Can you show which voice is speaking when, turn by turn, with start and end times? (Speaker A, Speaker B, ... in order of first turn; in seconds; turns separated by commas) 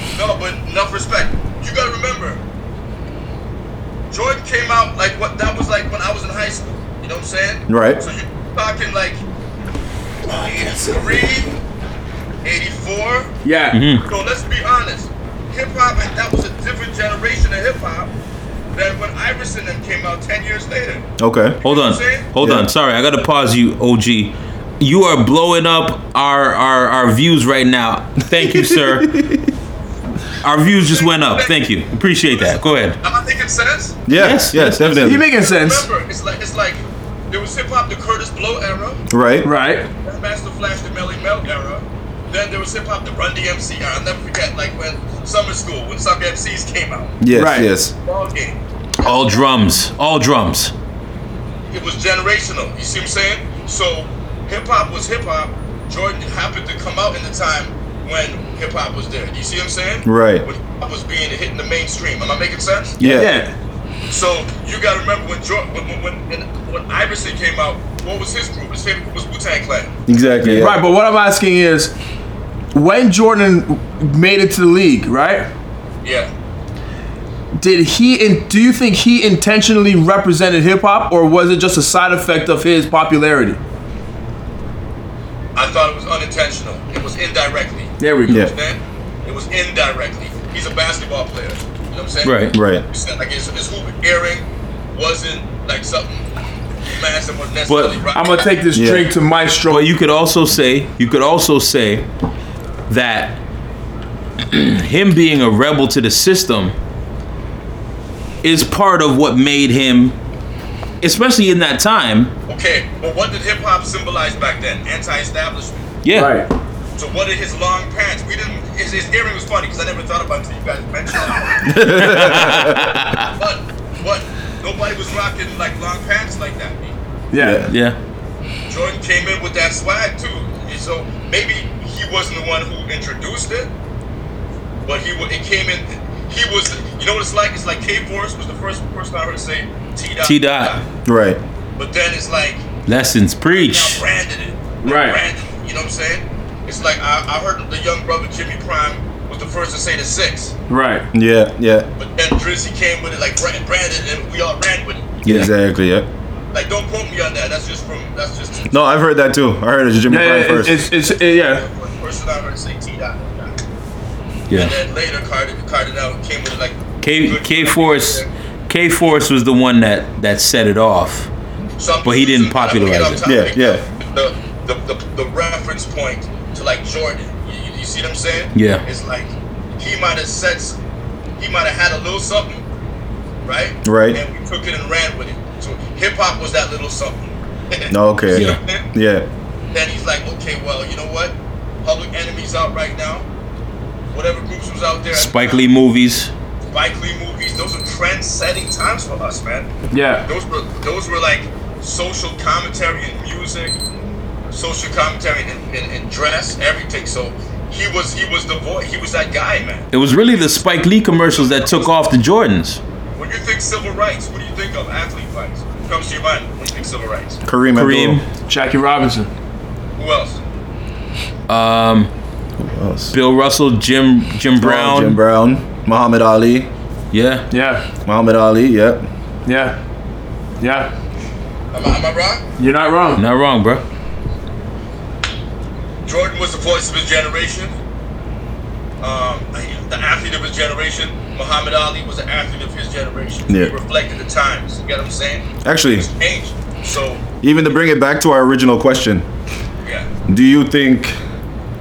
Speaker A: 0.1-2.4, Speaker A: 4.1-9.2, Speaker B: 7.7-8.0, Speaker A: 10.3-11.6, Speaker A: 12.4-13.4, Speaker C: 13.4-13.8, Speaker D: 13.7-14.1, Speaker A: 14.0-18.1, Speaker A: 18.7-21.1, Speaker B: 21.2-21.6, Speaker A: 21.6-22.3, Speaker D: 21.6-29.2, Speaker B: 22.4-22.7, Speaker B: 28.3-29.5, Speaker D: 30.4-33.0, Speaker A: 30.6-31.6, Speaker A: 32.3-34.0, Speaker B: 34.1-35.2, Speaker D: 34.1-35.1, Speaker C: 35.0-35.9, Speaker A: 35.2-36.8, Speaker A: 37.3-39.0, Speaker B: 39.1-39.5, Speaker C: 39.4-39.9, Speaker A: 40.0-47.2, Speaker B: 47.2-47.9, Speaker C: 47.3-47.7, Speaker A: 48.0-49.5, Speaker D: 49.0-50.7, Speaker A: 51.7-63.0, Speaker B: 60.0-60.5, Speaker B: 63.0-63.4, Speaker C: 63.0-63.5, Speaker A: 64.1-69.9, Speaker B: 70.1-70.8, Speaker C: 70.4-71.9, Speaker C: 72.7-75.5, Speaker A: 76.0-76.3, Speaker C: 77.6-83.6, Speaker A: 85.5-96.3, Speaker C: 88.0-88.5, Speaker B: 88.3-88.5, Speaker D: 92.2-92.6, Speaker B: 92.5-92.8, Speaker A: 96.9-98.5, Speaker D: 97.7-98.0, Speaker C: 98.1-99.9, Speaker B: 98.7-99.1, Speaker D: 99.7-102.1, Speaker D: 102.9-103.4, Speaker D: 104.5-106.7, Speaker D: 108.4-110.2, Speaker D: 111.0-112.3, Speaker A: 112.5-115.9, Speaker D: 116.0-116.4, Speaker C: 116.1-116.5, Speaker A: 117.0-127.0, Speaker B: 121.7-122.8, Speaker D: 121.8-123.3, Speaker C: 127.3-127.6, Speaker B: 127.4-127.7, Speaker D: 127.7-128.0, Speaker A: 128.7-133.7, Speaker A: 134.8-140.8, Speaker D: 140.2-140.8, Speaker B: 141.1-141.4, Speaker A: 141.8-142.7, Speaker D: 142.9-144.0, Speaker A: 143.5-150.5, Speaker C: 144.8-145.2, Speaker C: 150.7-151.1, Speaker B: 151.1-151.9, Speaker A: 152.0-155.1, Speaker D: 155.2-155.5, Speaker B: 155.2-156.1, Speaker A: 156.5-158.8, Speaker B: 158.7-160.9, Speaker C: 160.1-161.7, Speaker A: 161.0-163.6, Speaker D: 164.5-164.8, Speaker A: 164.5-168.3, Speaker D: 167.0-171.3, Speaker A: 171.8-180.8, Speaker D: 172.0-173.3, Speaker B: 173.2-173.8, Speaker D: 178.6-178.8, Speaker A: 181.4-182.6, Speaker A: 183.4-188.8, Speaker B: 183.8-184.2, Speaker B: 187.9-189.3, Speaker D: 188.3-188.6, Speaker A: 189.7-193.2, Speaker A: 194.1-195.6, Speaker D: 195.1-196.3, Speaker A: 196.7-199.7, Speaker C: 199.9-200.3, Speaker A: 200.2-203.8, Speaker A: 204.5-211.9, Speaker D: 209.9-212.8, Speaker A: 213.2-217.4, Speaker B: 217.5-218.2, Speaker D: 217.7-218.2, Speaker C: 218.5-219.3, Speaker A: 220.0-220.4, Speaker D: 221.5-222.1, Speaker B: 222.6-223.2, Speaker D: 223.1-225.2, Speaker B: 224.6-226.7, Speaker D: 227.1-227.5, Speaker C: 227.5-227.8, Speaker B: 228.1-229.1, Speaker C: 229.5-229.8, Speaker C: 230.6-230.9, Speaker A: 231.7-232.4, Speaker C: 232.6-233.2, Speaker D: 233.2-233.8, Speaker A: 236.1-237.8, Speaker A: 239.0-247.4, Speaker B: 243.5-243.7, Speaker B: 245.6-246.1, Speaker B: 247.4-249.3, Speaker A: 249.8-250.1, Speaker B: 250.3-251.2